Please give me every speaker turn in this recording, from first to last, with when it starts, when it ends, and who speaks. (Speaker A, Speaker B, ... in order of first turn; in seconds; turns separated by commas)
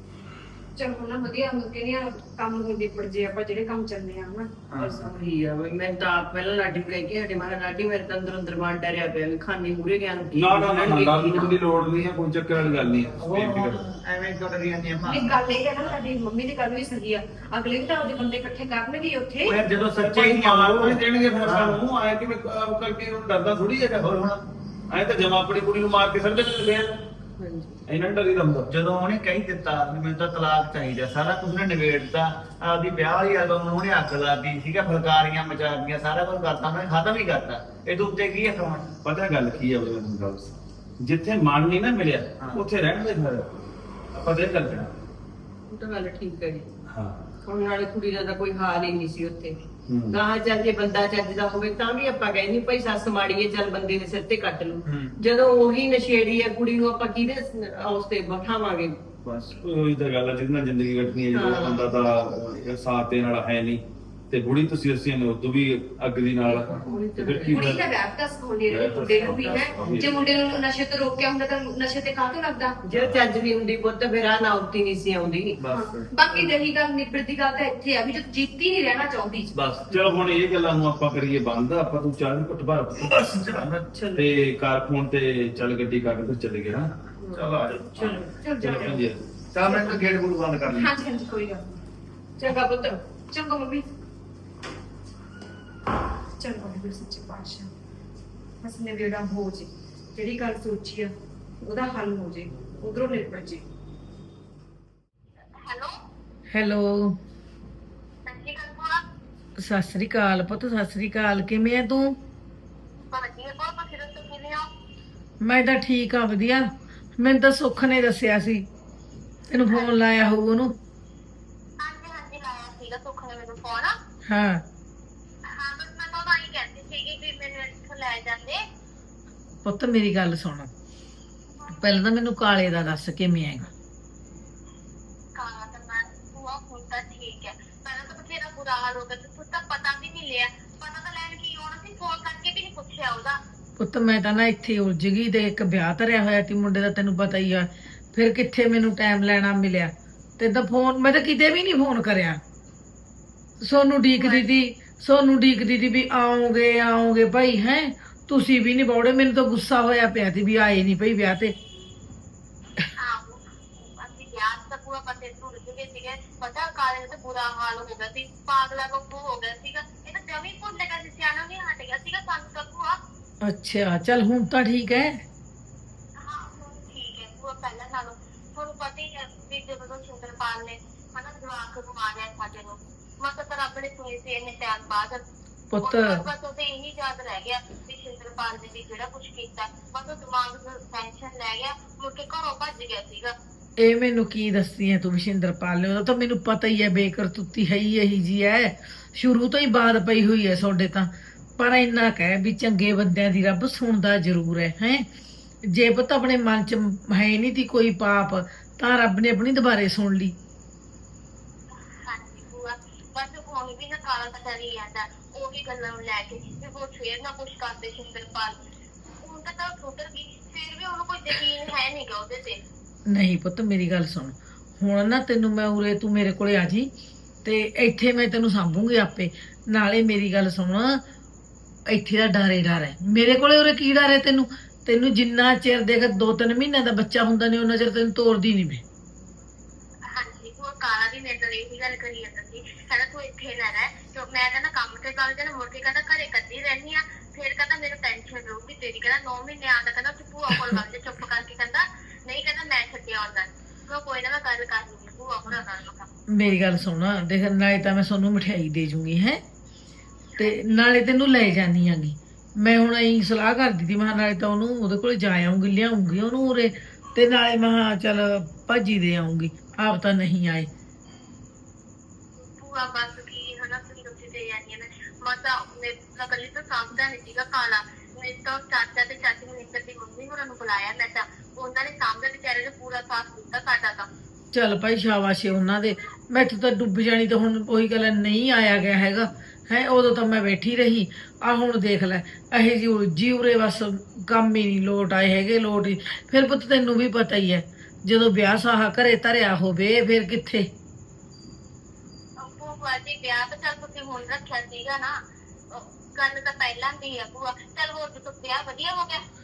Speaker A: 0.8-4.5, Speaker B: 4.8-5.0, Speaker C: 4.8-11.6, Speaker D: 10.3-13.8, Speaker B: 13.2-15.4, Speaker A: 15.0-19.6, Speaker B: 19.5-21.8, Speaker D: 19.6-24.1, Speaker B: 24.0-24.4, Speaker D: 24.9-26.9, Speaker C: 27.4-27.8, Speaker D: 27.9-28.7, Speaker B: 28.7-38.9, Speaker D: 39.0-43.5, Speaker D: 44.1-44.9, Speaker C: 45.7-46.7, Speaker D: 46.9-47.2, Speaker C: 47.5-49.6, Speaker D: 49.9-50.2, Speaker C: 50.1-59.0, Speaker B: 54.9-55.1, Speaker B: 59.2-59.5, Speaker D: 59.6-67.9, Speaker C: 61.3-61.9, Speaker C: 66.6-67.8, Speaker A: 67.5-72.8, Speaker D: 68.7-70.2, Speaker B: 69.3-70.1, Speaker C: 72.9-75.6, Speaker D: 72.9-73.2, Speaker B: 75.6-76.1, Speaker A: 75.7-79.5, Speaker B: 79.6-80.1, Speaker D: 79.9-86.9, Speaker B: 83.2-83.8, Speaker C: 83.8-84.3, Speaker C: 87.2-88.3, Speaker B: 87.3-88.2, Speaker D: 87.9-89.2, Speaker A: 88.4-90.0, Speaker B: 89.5-90.9, Speaker A: 90.7-91.8, Speaker C: 92.4-93.0, Speaker A: 93.3-93.8, Speaker A: 96.4-97.7, Speaker A: 98.6-103.7, Speaker E: 105.6-106.0, Speaker F: 106.5-107.2, Speaker E: 108.3-109.0, Speaker F: 109.6-112.2, Speaker E: 113.1-114.7, Speaker F: 115.4-118.7, Speaker F: 119.5-120.8, Speaker E: 121.8-124.0, Speaker F: 124.3-124.6, Speaker E: 125.5-128.6, Speaker F: 129.6-130.7, Speaker E: 131.6-131.9, Speaker F: 131.8-133.7, Speaker E: 135.3-143.4, Speaker F: 143.8-152.4, Speaker F: 153.6-161.5, Speaker E: 154.2-154.5, Speaker E: 163.0-173.0, Speaker F: 173.4-175.2, Speaker E: 176.2-185.2, Speaker F: 185.7-186.2, Speaker E: 185.8-193.3, Speaker F: 193.8-205.1, Speaker F: 205.7-210.3, Speaker E: 212.0-218.6, Speaker E: 219.2-222.6, Speaker F: 223.1-226.9, Speaker F: 227.4-231.0, Speaker F: 231.9-238.8, Speaker E: 240.1-256.1, Speaker F: 256.3-259.4, Speaker F: 260.4-270.7, Speaker E: 272.4-284.1, Speaker F: 284.5-300.7, Speaker E: 302.4-305.2, Speaker E: 305.7-309.2